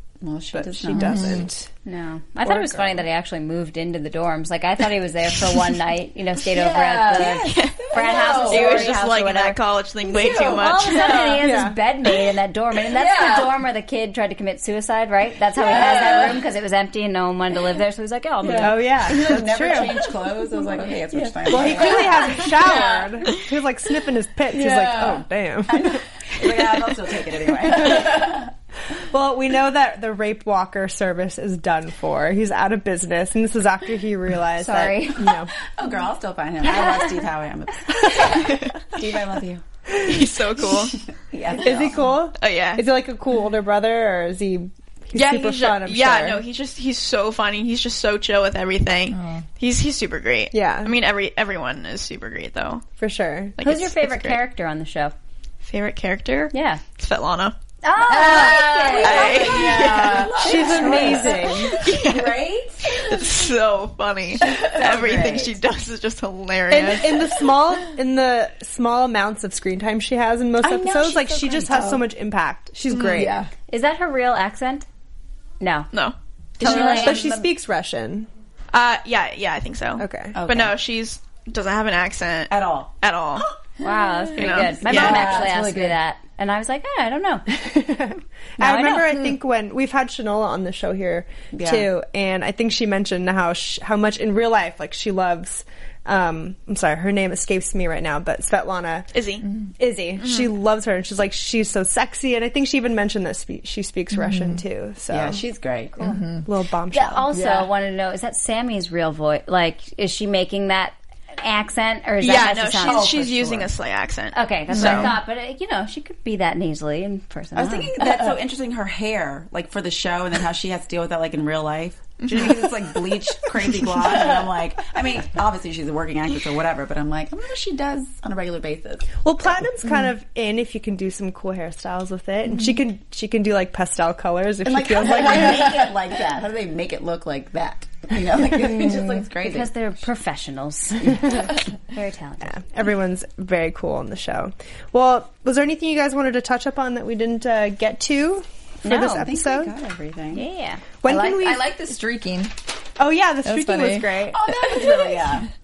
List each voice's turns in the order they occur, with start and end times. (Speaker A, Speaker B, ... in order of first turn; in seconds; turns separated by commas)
Speaker A: 0.2-1.4, Speaker B: 0.5-1.7, Speaker C: 0.9-1.5, Speaker D: 1.8-9.6, Speaker B: 2.4-3.0, Speaker C: 6.5-8.9, Speaker A: 7.2-8.9, Speaker E: 7.3-7.8, Speaker E: 8.4-11.3, Speaker C: 10.1-11.4, Speaker A: 10.3-10.6, Speaker D: 10.5-18.8, Speaker B: 11.4-11.8, Speaker C: 12.9-13.6, Speaker C: 15.6-16.4, Speaker A: 15.8-16.3, Speaker C: 18.4-18.7, Speaker A: 18.5-22.5, Speaker B: 18.6-20.1, Speaker C: 21.1-23.3, Speaker B: 21.5-26.0, Speaker C: 24.5-25.2, Speaker A: 25.7-28.5, Speaker B: 27.7-28.3, Speaker B: 29.1-35.5, Speaker D: 34.6-35.2, Speaker A: 35.8-39.6, Speaker E: 38.3-38.7, Speaker B: 39.9-40.2, Speaker E: 40.0-41.0, Speaker A: 40.8-42.1, Speaker B: 41.6-46.4, Speaker E: 42.4-42.9, Speaker E: 45.1-52.8, Speaker C: 49.1-49.4, Speaker B: 50.5-50.9, Speaker B: 53.0-53.5, Speaker E: 53.6-54.4, Speaker D: 53.6-55.1, Speaker E: 55.6-57.5, Speaker D: 56.5-56.8, Speaker D: 57.8-59.6, Speaker C: 58.0-61.2, Speaker A: 58.4-63.1, Speaker E: 59.0-60.3, Speaker B: 60.4-61.8, Speaker D: 60.6-61.5, Speaker E: 61.7-67.4, Speaker A: 64.4-65.5, Speaker B: 66.7-73.3, Speaker A: 70.6-72.0, Speaker E: 72.9-73.3, Speaker C: 73.1-73.5, Speaker D: 73.7-74.8, Speaker D: 75.6-75.9, Speaker E: 75.9-77.2, Speaker D: 76.6-77.3, Speaker B: 76.6-78.3, Speaker A: 76.8-77.3, Speaker E: 78.7-83.5, Speaker B: 80.0-80.4, Speaker A: 80.3-80.7, Speaker A: 82.5-82.9, Speaker D: 83.8-87.5, Speaker E: 84.3-85.4, Speaker A: 84.6-86.0, Speaker C: 84.9-85.3, Speaker B: 87.5-99.1, Speaker D: 88.6-89.0, Speaker A: 91.5-91.9, Speaker E: 99.1-99.5, Speaker B: 99.8-105.4, Speaker E: 100.2-100.5, Speaker C: 104.1-104.6, Speaker A: 105.1-106.0, Speaker B: 106.0-107.3, Speaker C: 106.0-106.5, Speaker D: 106.9-113.2, Speaker C: 107.3-107.7, Speaker E: 112.2-115.1, Speaker C: 112.8-113.3, Speaker D: 114.3-118.0, Speaker C: 114.8-115.0, Speaker A: 117.5-129.1, Speaker E: 122.2-122.6, Speaker B: 129.2-135.9, Speaker A: 134.6-139.7, Speaker D: 139.4-142.6, Speaker B: 142.4-149.7, Speaker D: 148.8-149.2, Speaker A: 149.1-150.4, Speaker D: 150.3-150.8, Speaker B: 151.0-151.7, Speaker C: 151.0-152.5, Speaker B: 153.0-154.9, Speaker C: 153.4-154.2, Speaker A: 154.3-155.5